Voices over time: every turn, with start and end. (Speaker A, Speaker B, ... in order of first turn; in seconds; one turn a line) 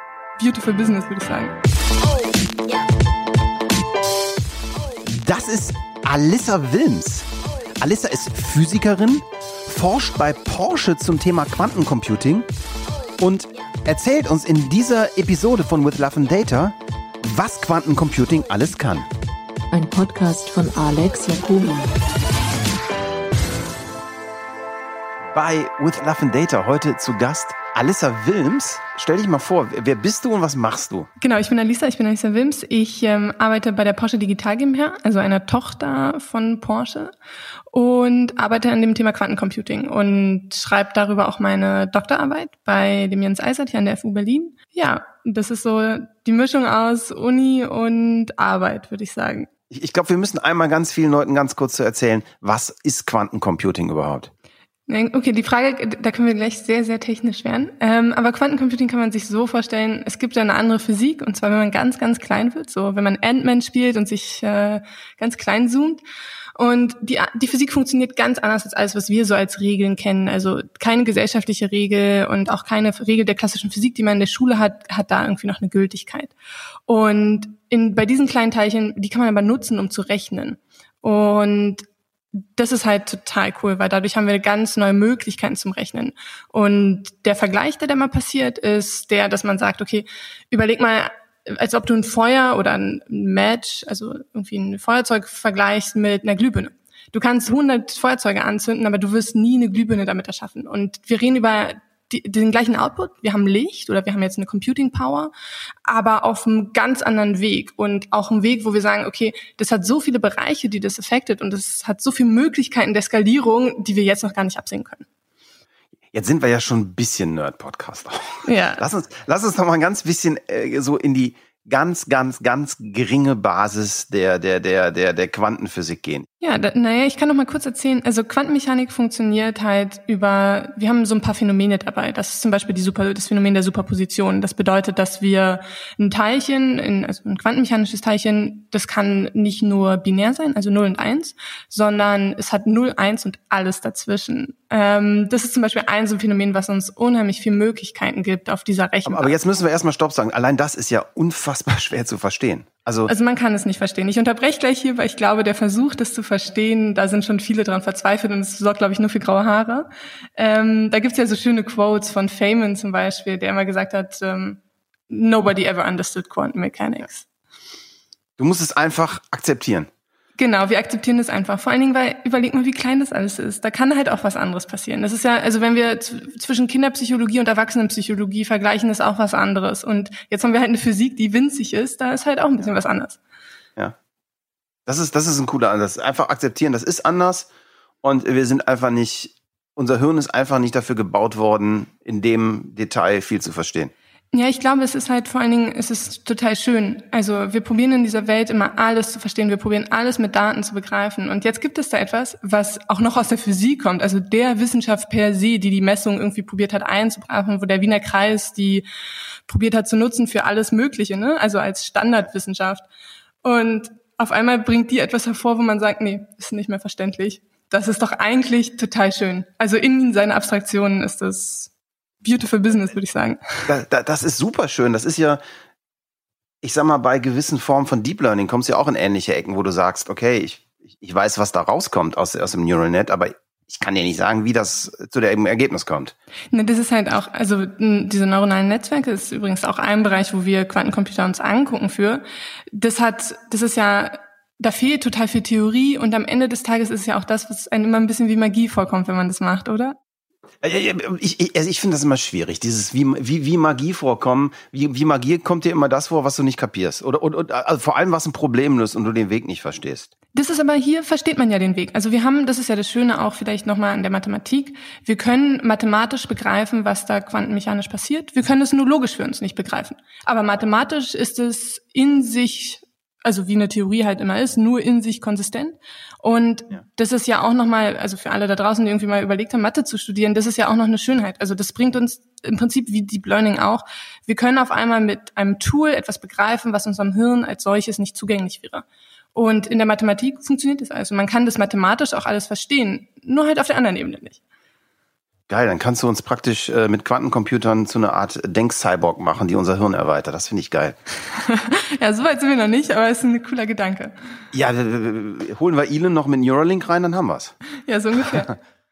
Speaker A: 0.4-1.6
Speaker B: 5.0-7.3
Speaker B: 7.8-12.5
Speaker B: 13.2-19.1
Speaker C: 19.7-21.9
Speaker B: 25.3-31.1
Speaker A: 31.2-37.1
Speaker A: 37.7-49.5
Speaker B: 49.7-54.3
Speaker A: 54.9-66.0
Speaker A: 66.6-76.3
Speaker A: 76.9-81.8
Speaker A: 82.5-105.3
Speaker A: 105.8-115.1
Speaker B: 116.1-126.3
Speaker A: 118.4-118.8
Speaker A: 126.4-149.3
Speaker B: 149.1-153.1
Speaker A: 153.1-167.2
Speaker B: 168.4-169.9
Speaker A: 170.4-183.2
Speaker B: 184.8-187.5
Speaker B: 188.0-193.9
Speaker A: 194.3-208.8
Speaker A: 209.5-212.9
Speaker A: 213.4-221.7
Speaker A: 222.2-223.7
Speaker B: 223.7-225.4
Speaker B: 226.6-236.1
Speaker A: 236.5-250.0
Speaker B: 250.6-260.1
Speaker A: 260.3-294.4
Speaker B: 295.5-301.0
Speaker A: 301.3-304.1
Speaker B: 304.5-307.6
Speaker A: 307.9-308.5